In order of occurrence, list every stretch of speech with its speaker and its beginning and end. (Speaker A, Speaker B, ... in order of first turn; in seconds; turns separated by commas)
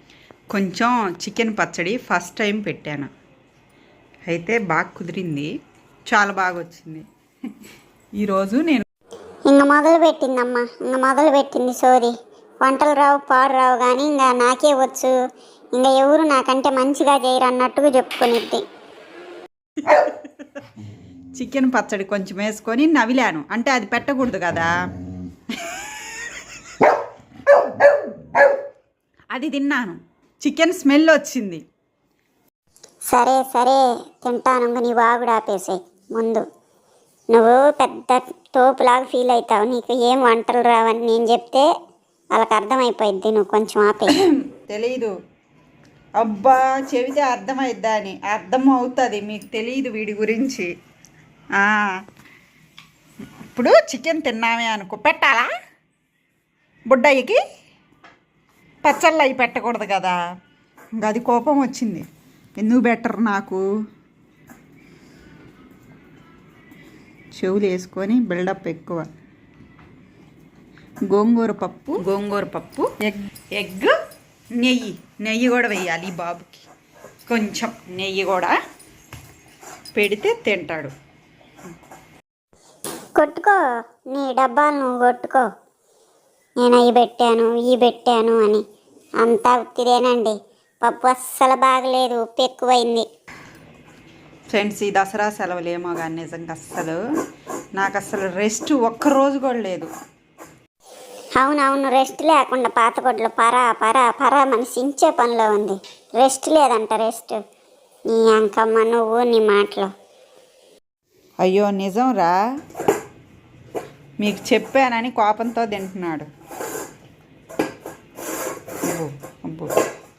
Speaker A: 0.5-3.1, Speaker A: 4.3-5.5, Speaker A: 6.1-7.0, Speaker A: 8.2-8.8, Speaker B: 9.5-15.1, Speaker B: 15.7-18.6, Speaker A: 21.3-24.7, Speaker A: 29.3-31.6, Speaker B: 33.1-36.4, Speaker B: 37.3-41.7, Speaker B: 42.3-44.1, Speaker A: 44.4-45.1, Speaker A: 46.2-50.7, Speaker A: 51.6-51.9, Speaker A: 53.5-55.5, Speaker A: 56.9-57.4, Speaker A: 58.8-60.2, Speaker A: 61.0-62.0, Speaker A: 62.6-63.6, Speaker A: 67.3-69.0, Speaker A: 71.1-73.9, Speaker A: 74.6-76.7, Speaker A: 77.3-78.5, Speaker A: 79.9-80.9, Speaker B: 83.2-83.6, Speaker B: 84.1-85.5, Speaker B: 86.6-88.6, Speaker B: 89.2-93.0, Speaker A: 94.5-97.0, Speaker A: 97.8-99.9, Speaker B: 101.4-107.4, Speaker B: 108.1-109.9, Speaker A: 111.4-112.4, Speaker A: 114.2-116.3, Speaker A: 118.8-119.7